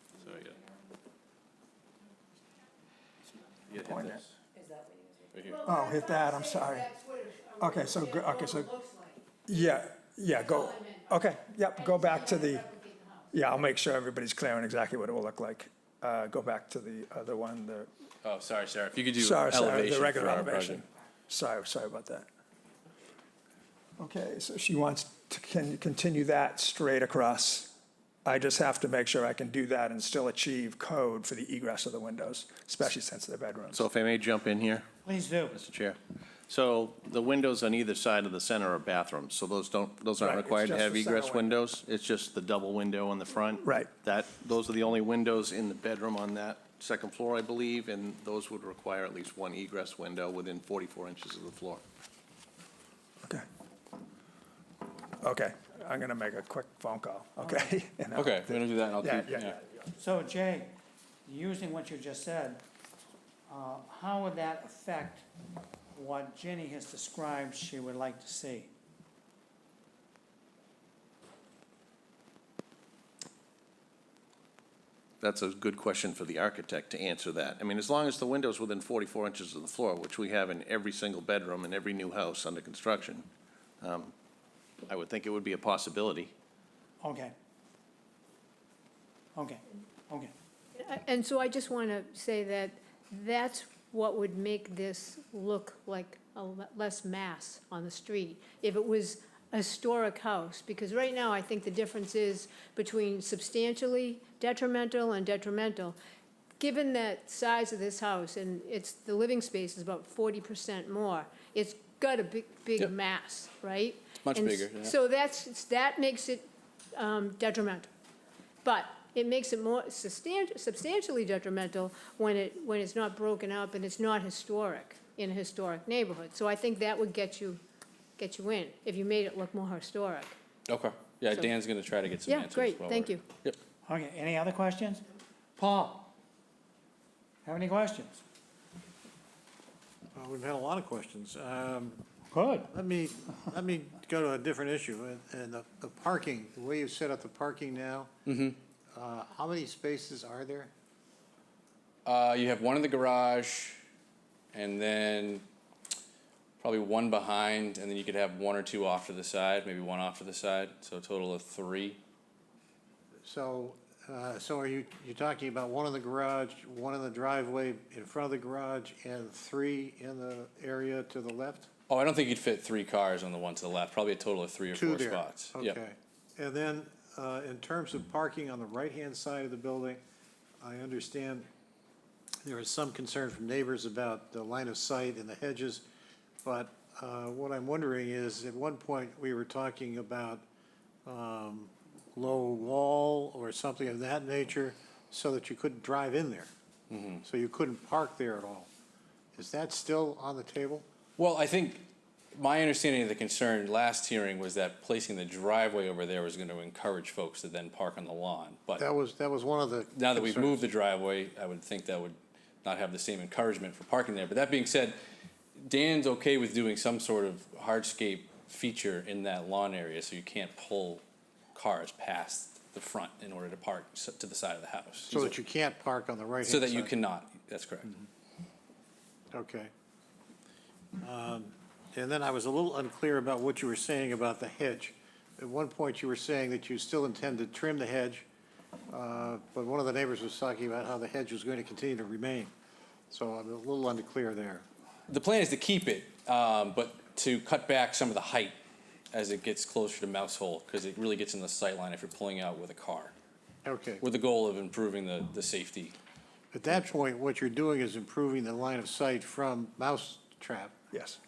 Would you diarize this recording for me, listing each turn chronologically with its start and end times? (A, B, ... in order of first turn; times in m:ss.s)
0:00.2-0:00.6 A
0:03.6-0:04.4 A
0:03.8-0:04.2 B
0:05.3-0:05.6 A
0:05.5-0:09.2 C
0:05.6-0:06.9 B
0:07.6-0:08.7 B
0:09.5-0:12.6 B
0:10.4-0:11.1 C
0:11.8-0:13.3 C
0:13.3-0:17.9 B
0:18.2-0:20.8 A
0:19.2-0:22.3 B
0:19.4-0:20.7 D
0:24.0-0:33.8 B
0:33.7-0:34.9 D
0:35.0-0:35.6 E
0:35.5-0:51.8 D
0:40.2-0:41.5 B
0:43.6-0:43.9 B
0:55.2-0:59.6 B
0:57.4-0:57.7 E
0:58.1-0:59.6 A
1:00.0-1:00.7 E
1:01.2-1:02.6 E
1:03.5-1:05.2 E
1:05.9-1:08.7 E
1:15.2-1:23.3 D
1:23.8-1:24.1 D
1:24.9-1:26.3 D
1:27.0-1:27.3 E
1:29.3-1:30.3 E
1:30.8-1:46.0 C
1:46.6-1:57.9 C
1:54.2-1:54.9 A
1:58.6-2:07.6 C
2:08.2-2:10.4 C
2:10.7-2:13.6 A
2:12.3-2:13.2 C
2:13.8-2:15.1 E
2:15.6-2:16.1 E
2:17.4-2:18.2 E
2:20.1-2:22.0 F
2:22.3-2:22.7 E
2:22.7-2:28.1 F
2:28.3-2:28.6 A
2:28.9-2:30.7 F
2:32.0-2:33.8 A
2:34.5-2:35.4 A
2:36.6-2:42.0 A
2:43.2-2:51.7 F
2:51.9-2:55.8 A
2:54.7-3:00.0 F
3:00.6-3:01.5 F
3:02.4-3:05.8 F
3:06.4-3:10.4 F
3:11.1-3:16.5 F
3:16.9-3:17.2 A
3:17.2-3:18.7 F
3:19.4-3:20.8 F
3:21.2-3:28.8 A
3:28.8-3:30.7 F
3:29.9-3:35.0 A
3:35.6-3:41.0 A
3:41.5-3:45.4 A
3:45.1-3:46.9 F
3:46.4-3:48.0 A
3:49.3-3:49.7 F
3:51.0-3:58.2 F
3:58.9-4:02.5 F
4:03.1-4:04.6 F
4:05.1-4:08.6 A
4:09.1-4:13.1 A
4:13.6-4:14.0 F
4:14.0-4:16.0 A
4:16.5-4:20.8 F
4:20.9-4:21.2 B